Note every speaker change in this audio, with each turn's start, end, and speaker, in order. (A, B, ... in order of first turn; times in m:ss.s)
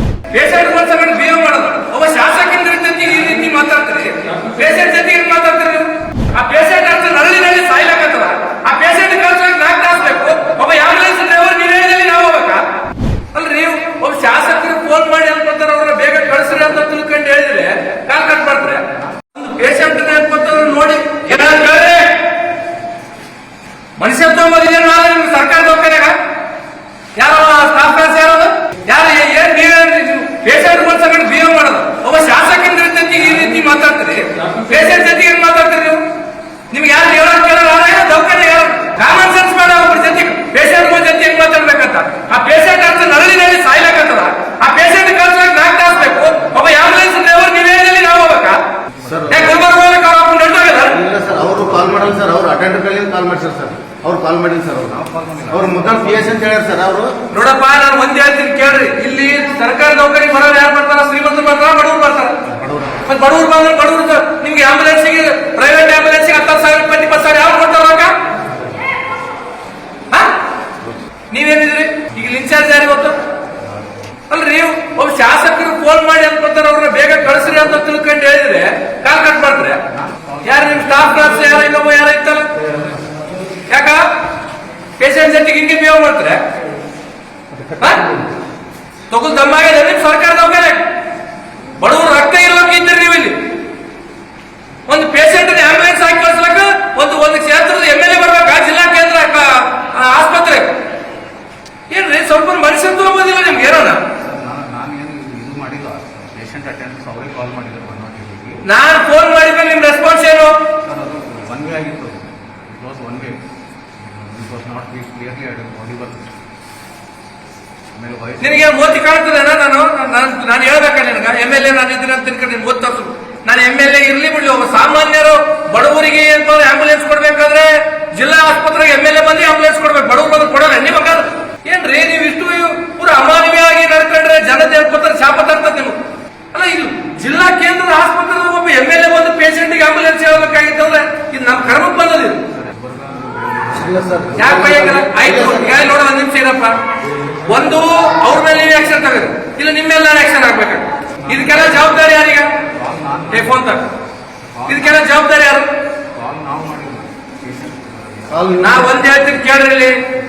0:00.3-0:12.7 A
0:13.3-0:22.3 A
0:24.0-0:26.2 A
0:27.2-0:36.0 A
0:36.7-0:48.6 A
0:49.0-0:49.2 B
0:49.1-0:49.4 C
0:49.3-0:51.0 A
0:50.9-0:55.0 C
0:54.8-0:56.4 B
0:55.5-0:57.1 C
0:57.3-1:02.4 A
1:03.0-1:08.1 A
1:10.1-1:10.4 A
1:11.3-1:13.2 A
1:14.3-1:19.8 A
1:20.0-1:20.7 B
1:20.4-1:22.5 A
1:23.7-1:24.1 A
1:25.0-1:26.4 A
1:27.7-1:28.2 A
1:29.1-1:30.9 A
1:31.8-1:33.5 A
1:34.9-1:40.8 A
1:41.9-1:44.0 A
1:44.2-1:48.6 B
1:48.6-1:50.6 A
1:50.8-1:53.5 B
1:54.0-1:56.3 B
1:58.0-1:58.9 B
1:58.4-2:16.0 A
2:16.5-2:22.5 A
2:22.5-2:24.4 B
2:23.7-2:25.7 C
2:24.4-2:26.8 A
2:27.4-2:32.5 A
2:32.6-2:33.7 B
2:33.3-2:33.9 A
2:34.5-2:35.0 B
2:34.6-2:35.7 A
2:36.1-2:38.5 B
2:38.3-2:38.9 C
2:38.6-2:40.0 A